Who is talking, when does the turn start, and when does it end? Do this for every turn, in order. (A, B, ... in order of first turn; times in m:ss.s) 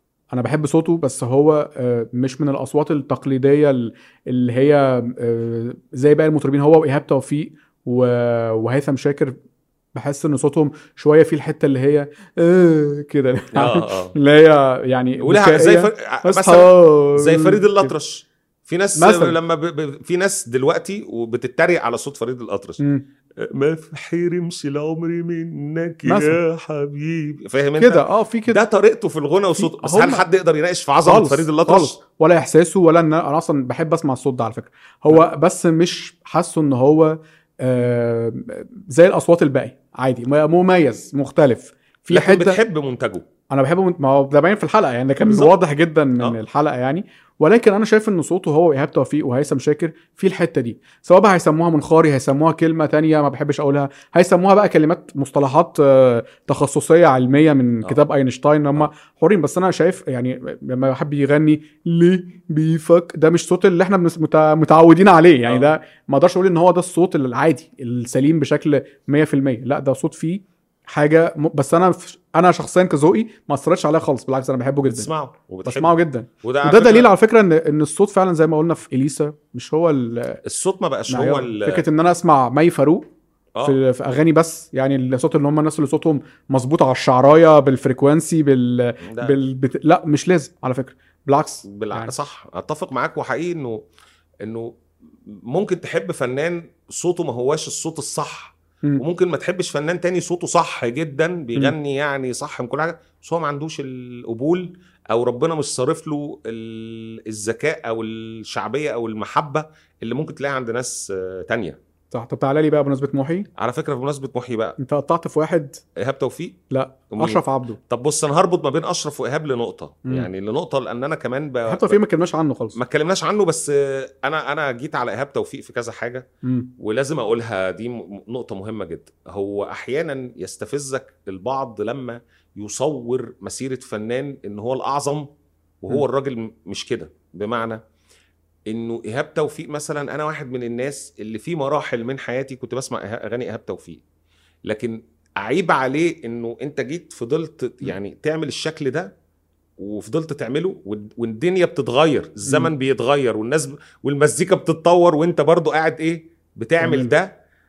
0:00.3-0:09.3 A
0:09.9-0:17.9 A
0:13.5-0:14.1 B
0:15.2-0:22.8 B
0:19.0-0:19.4 A
0:22.8-0:23.0 A
0:23.4-0:32.0 B
0:26.0-0:26.4 A
0:27.8-0:28.6 A
0:29.6-0:30.2 A
0:31.0-0:42.6 A
0:42.1-0:43.2 B
0:43.5-1:15.1 A
0:45.2-0:45.5 B
1:05.5-1:05.7 B
1:14.8-1:17.1 B
1:15.6-1:20.4 A
1:20.4-1:21.8 B
1:21.1-1:23.1 A
1:23.6-1:32.1 A
1:29.0-1:29.3 B
1:31.7-1:33.8 B
1:34.4-1:34.8 B
1:35.5-1:51.8 B
1:52.1-1:53.5 A
1:53.6-1:54.8 B
1:54.8-1:55.8 A
1:56.0-1:56.6 B
1:56.7-1:57.8 A
1:57.1-2:02.0 B
2:01.7-2:02.8 A
2:02.7-2:06.2 B
2:06.4-2:06.7 A
2:06.8-2:15.3 B
2:15.8-2:17.8 B
2:18.7-2:24.0 B
2:24.7-2:29.1 B
2:29.8-2:37.3 B
2:32.4-2:32.7 A
2:36.8-2:37.1 A